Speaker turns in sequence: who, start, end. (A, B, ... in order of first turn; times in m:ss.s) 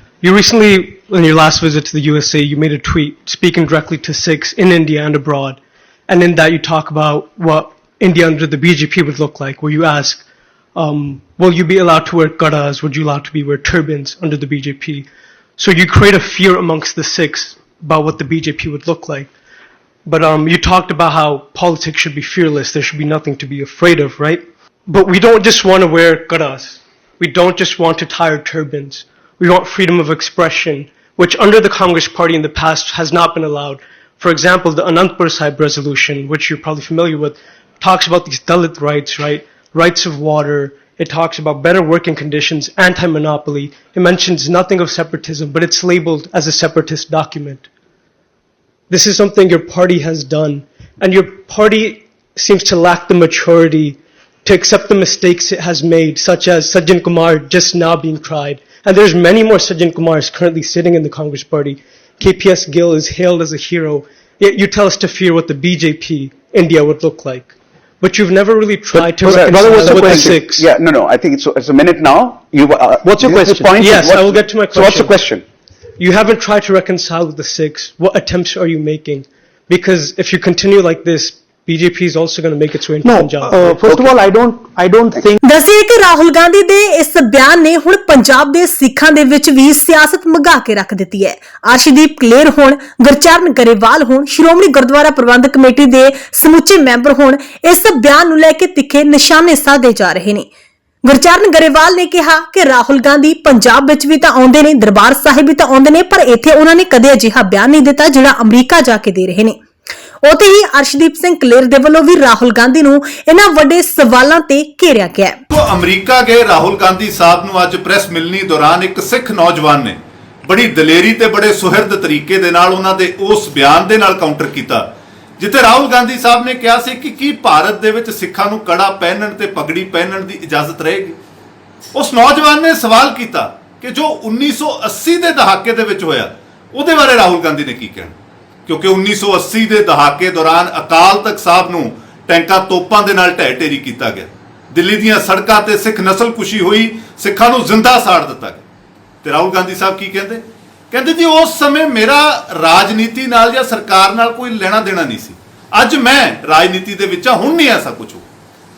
0:00.2-0:19.3 A
0:20.0-0:47.7 A
0:48.9-1:10.6 A
1:08.9-1:15.4 B
1:09.2-1:10.5 C
1:13.0-1:15.2 A
1:16.0-1:23.7 A
1:23.0-1:25.4 C
1:23.7-1:24.1 B
1:25.4-1:40.5 D
1:41.0-1:49.6 D
1:50.2-1:55.4 D
1:55.5-2:04.8 E
2:05.4-2:11.2 E
2:11.9-2:18.1 E
2:18.7-2:28.6 E
2:29.2-2:38.2 E